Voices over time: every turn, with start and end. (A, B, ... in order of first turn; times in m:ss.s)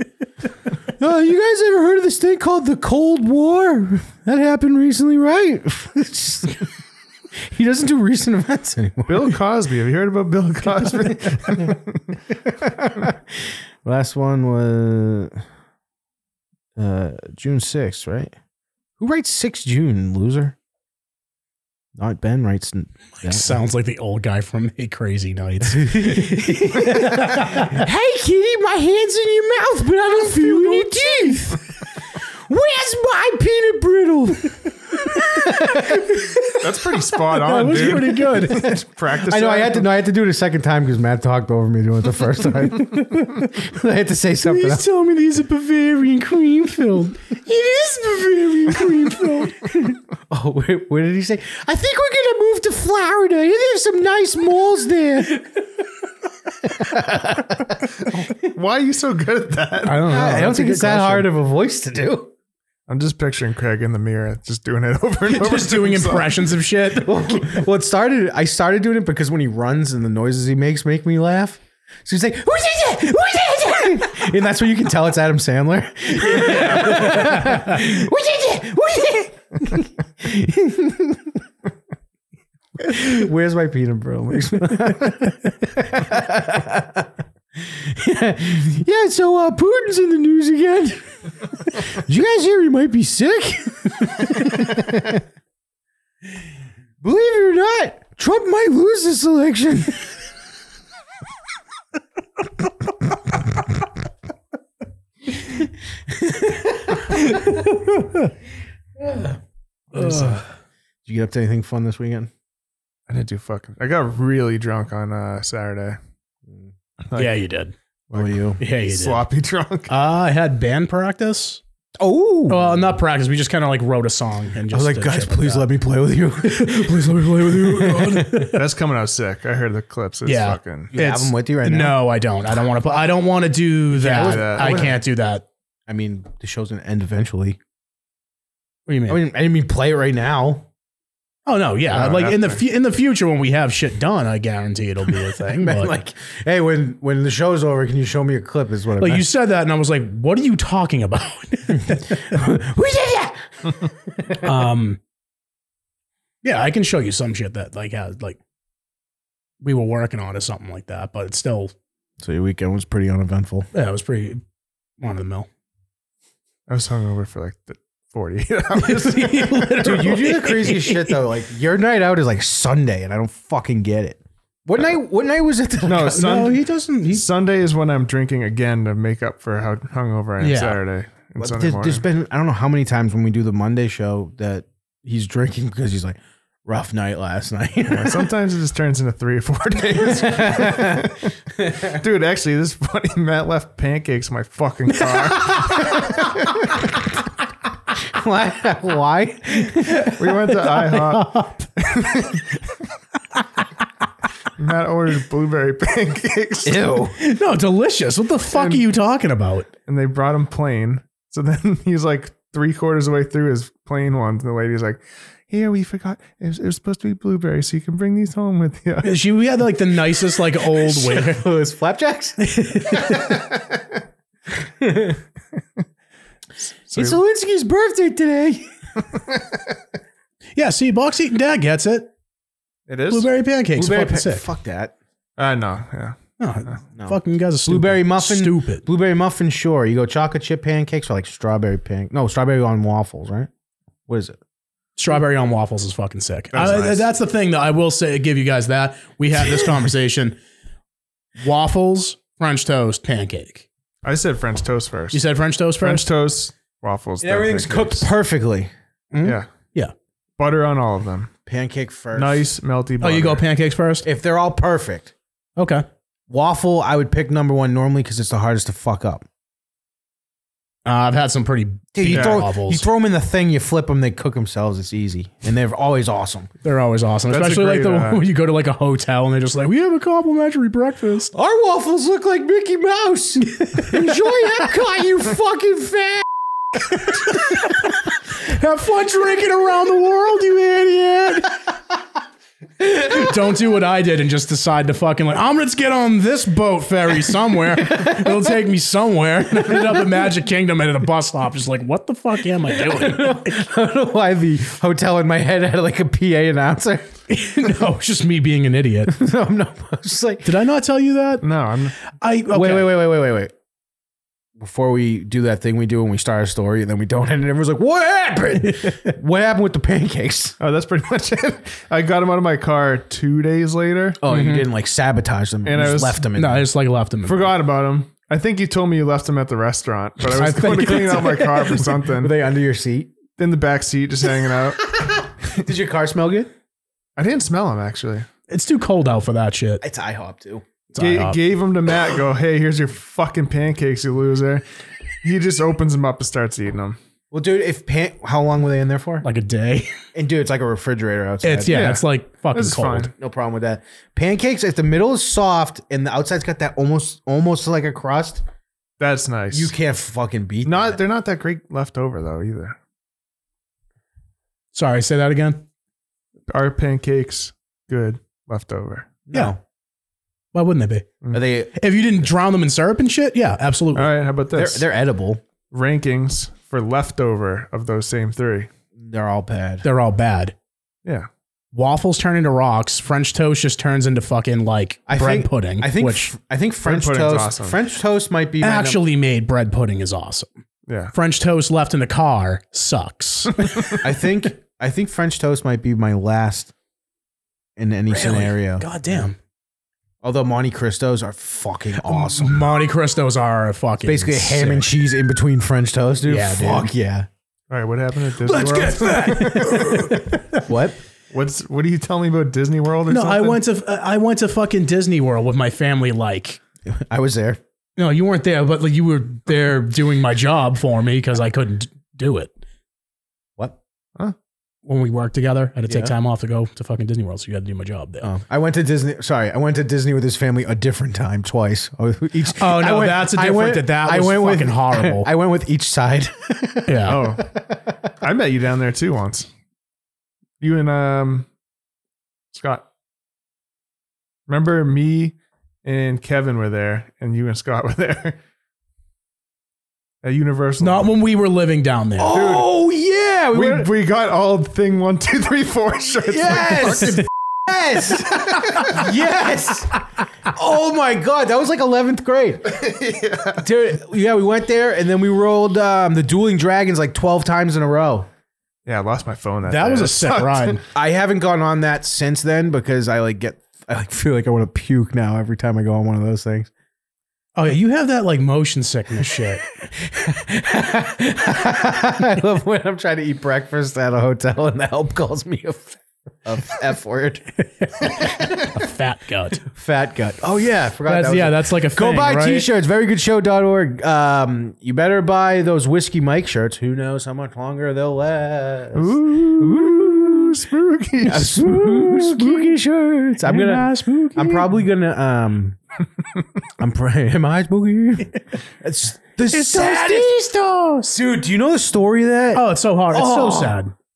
0:01.0-0:06.7 A
0:07.4-0:09.3 A
0:09.1-0:12.1 B
0:12.6-0:15.4 A
0:16.8-0:18.3 A
0:19.0-0:20.6 A
0:22.0-0:23.6 A
0:23.2-0:27.8 C
0:25.6-0:31.6 A
0:30.2-0:31.4 C
0:32.5-0:36.3 A
0:35.8-0:36.6 C
0:36.6-0:39.9 B
0:37.3-0:38.8 C
0:38.3-0:44.8 A
0:42.7-0:43.5 C
0:44.4-0:49.7 C
0:48.8-0:55.4 A
0:56.6-0:58.3 A
0:58.4-1:00.0 B
0:59.8-1:01.3 C
1:00.0-1:02.3 A
1:02.9-1:06.3 B
1:05.3-1:07.4 C
1:06.9-1:21.4 A
1:16.9-1:17.8 C
1:22.8-1:31.1 A
1:31.6-1:35.2 A
1:37.0-1:40.1 A
1:45.4-1:47.7 A
1:47.6-1:48.3 C
1:49.0-1:49.4 A
1:49.9-1:50.4 A
1:49.9-1:50.4 C
1:51.0-1:52.3 A
1:53.1-1:56.0 B
1:57.1-1:57.4 B
1:57.2-1:57.7 C
1:58.1-1:59.9 B
1:58.1-1:58.6 A
1:58.6-1:59.2 C
1:59.9-2:01.6 C
2:02.0-2:03.0 A
2:02.5-2:05.7 C
2:04.7-2:08.6 A
2:06.5-2:08.6 C
2:08.5-2:10.9 B
2:10.2-2:15.4 C
2:10.9-2:12.0 A
2:14.0-2:15.0 B
2:14.0-2:15.0 A
2:15.9-2:17.6 A
2:18.9-2:19.2 C
2:19.1-2:20.7 A
2:21.4-2:25.9 C
2:21.9-2:22.6 B
2:25.5-2:29.2 A
2:29.0-2:32.4 C
2:31.8-2:34.5 A
2:34.4-2:35.0 C
2:36.4-2:38.4 C
2:39.6-2:41.7 C
2:42.2-2:43.7 A
2:43.7-2:44.4 C
2:45.0-2:45.5 C
2:46.7-2:50.0 B
2:48.8-2:51.2 C
2:49.7-2:56.5 A
2:55.8-3:02.0 B
2:56.1-2:57.2 C
3:00.4-3:00.8 C
3:01.4-3:08.3 A
3:07.9-3:11.3 B
3:10.0-3:12.0 A
3:11.8-3:16.0 B
3:15.1-3:16.8 A
3:17.9-3:20.1 A
3:19.8-3:21.7 C
3:20.2-3:22.4 B
3:24.6-3:26.9 B
3:26.6-3:27.1 A
3:27.2-3:29.7 C
3:28.5-3:28.8 B
3:29.9-3:39.1 B
3:39.0-3:41.5 C
3:40.7-3:43.6 A
3:42.4-3:43.3 C
3:44.6-3:45.2 A
3:46.9-3:47.2 B
3:46.9-3:48.7 A
3:50.6-3:52.1 C
3:52.9-3:53.3 B
3:53.1-3:54.4 C
3:53.8-3:54.9 A
3:55.4-3:56.2 B
3:56.4-3:58.8 C
3:57.0-4:03.5 A
4:04.1-4:04.4 A
4:05.0-4:10.4 C
4:06.5-4:07.1 B
4:11.4-4:13.6 C
4:14.0-4:15.2 B
4:15.1-4:16.1 C
4:15.8-4:18.1 B
4:17.2-4:18.7 A
4:19.1-4:19.9 C
4:20.4-4:21.3 B
4:21.4-4:22.5 A
4:22.1-4:23.4 B
4:23.0-4:24.1 C
4:24.0-4:25.1 A
4:25.6-4:25.8 C
4:26.3-4:29.3 A
4:30.8-4:32.8 C
4:31.9-4:36.5 A
4:32.1-4:32.4 B
4:36.6-4:41.3 C
4:37.3-4:38.2 B
4:41.3-4:46.3 A
4:43.6-4:43.9 C
4:47.0-4:47.7 C
4:48.4-4:51.5 C
4:52.8-5:03.6 C
4:57.8-4:58.5 A
4:59.6-5:00.0 A
5:02.7-5:07.2 A
5:07.3-5:09.2 C
5:09.1-5:10.5 A
5:10.4-5:11.4 C
5:11.4-5:11.9 B
5:12.1-5:13.0 C
5:12.5-5:13.5 A
5:14.6-5:20.6 A
5:20.6-5:24.2 B
5:24.2-5:26.6 A
5:24.3-5:24.7 C
5:25.6-5:26.3 B
5:26.4-5:27.5 C
5:27.2-5:32.4 B
5:30.3-5:31.8 C
5:32.0-5:33.1 A
5:33.4-5:35.0 B
5:35.0-5:36.5 A
5:37.2-5:38.3 B
5:38.5-5:39.8 C
5:39.8-5:40.6 A
5:40.9-5:41.4 C
5:41.0-5:44.6 B
5:45.2-5:47.0 B
5:47.3-5:49.2 A
5:49.2-5:49.9 C
5:50.1-5:51.8 A
5:51.4-5:53.1 C
5:51.7-5:53.1 B
5:53.1-5:58.4 A
5:59.0-5:59.7 B
5:59.5-6:01.0 A
6:00.6-6:02.8 B
6:04.7-6:05.6 C
6:06.5-6:09.3 B
6:09.3-6:09.6 A
6:10.5-6:11.1 C
6:11.3-6:11.7 A
6:11.8-6:14.1 C
6:13.9-6:14.8 B
6:14.5-6:15.4 A
6:15.7-6:18.7 B
6:19.0-6:19.8 A
6:19.8-6:20.5 C
6:21.7-6:26.3 C
6:25.1-6:29.0 A
6:26.8-6:27.8 B
6:28.6-6:30.5 C
6:30.9-6:31.1 B
6:31.1-6:34.0 C
6:34.0-6:36.7 A
6:37.8-6:39.3 A
6:38.1-6:39.4 C
6:40.2-6:42.7 A
6:42.0-6:44.9 C
6:44.0-6:47.3 A
6:46.2-6:46.9 C
6:47.7-6:50.1 B
6:48.4-6:50.6 C
6:49.4-6:51.0 A
6:51.3-6:53.6 B
6:53.1-6:56.6 C
6:56.9-6:57.6 A
6:58.0-7:02.5 C
7:04.8-7:08.3 C
7:05.9-7:06.1 A
7:08.2-7:17.4 A
7:12.5-7:15.3 C
7:16.9-7:17.2 C
7:17.0-7:17.5 B
7:18.2-7:19.5 B
7:20.6-7:21.5 B
7:22.5-7:22.8 B
7:24.5-7:28.4 B
7:30.2-7:31.1 B
7:30.8-7:32.4 C
7:32.2-7:33.9 A
7:32.3-7:32.7 B
7:33.5-7:37.2 B
7:36.3-7:42.8 A
7:42.7-7:43.6 B
7:43.5-7:48.3 A
7:48.8-7:50.8 B
7:49.6-7:50.8 C
7:50.9-7:56.7 A
7:57.6-7:59.6 C
8:00.0-8:07.5 A
8:07.8-8:09.6 C
8:08.0-8:08.5 A
8:09.6-8:20.6 A
8:11.1-8:12.7 C
8:18.9-8:21.5 B
8:21.2-8:25.8 A
8:21.4-8:22.7 C
8:23.4-8:24.8 C
8:26.7-8:30.4 A
8:29.5-8:31.1 C
8:31.1-8:33.8 A
8:32.5-8:33.9 C